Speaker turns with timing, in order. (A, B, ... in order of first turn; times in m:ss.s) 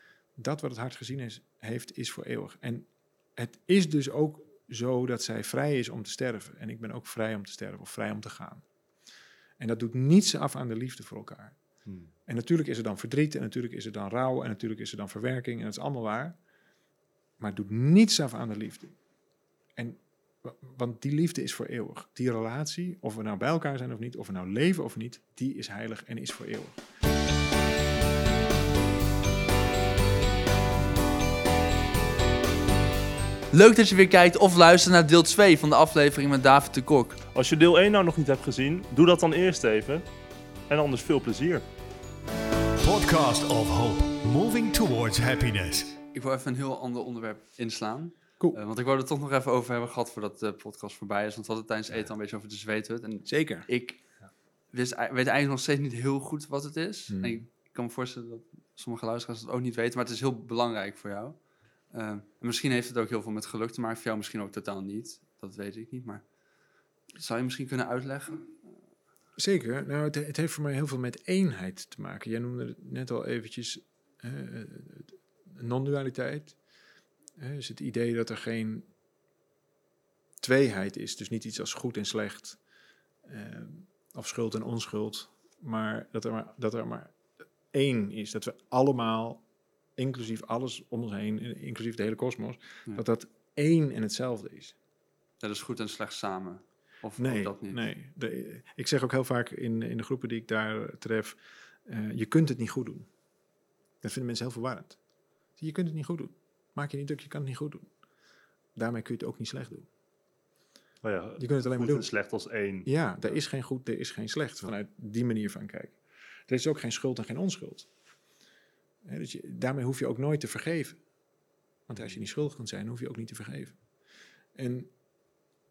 0:00.4-0:08.6 A
0:09.6-0:11.6 A
0:11.8-0:12.1 B
0:12.2-0:16.4 A
0:17.4-0:19.0 A
0:19.8-0:26.8 A
0:33.5-0:37.2 C
0:37.3-0:40.1 B
0:40.7-0:41.6 B
0:42.8-0:46.0 D
0:46.1-0:54.0 C
0:53.2-0:53.7 A
0:54.7-1:06.2 C
0:57.1-0:57.4 A
1:07.1-1:08.6 C
1:09.4-1:16.6 A
1:17.4-1:18.8 A
1:20.4-1:22.6 A
1:23.2-1:27.1 A
1:27.7-1:29.4 A
1:30.0-1:34.7 A
1:35.4-1:37.8 C
1:37.2-1:43.1 A
1:44.0-1:45.0 A
1:45.6-1:47.9 A
1:48.8-1:49.9 A
1:51.0-1:52.9 B
1:51.4-1:52.1 A
1:52.8-1:56.0 A
1:56.5-1:57.9 A
1:59.0-2:01.0 A
2:01.9-2:03.8 A
2:04.6-2:04.9 A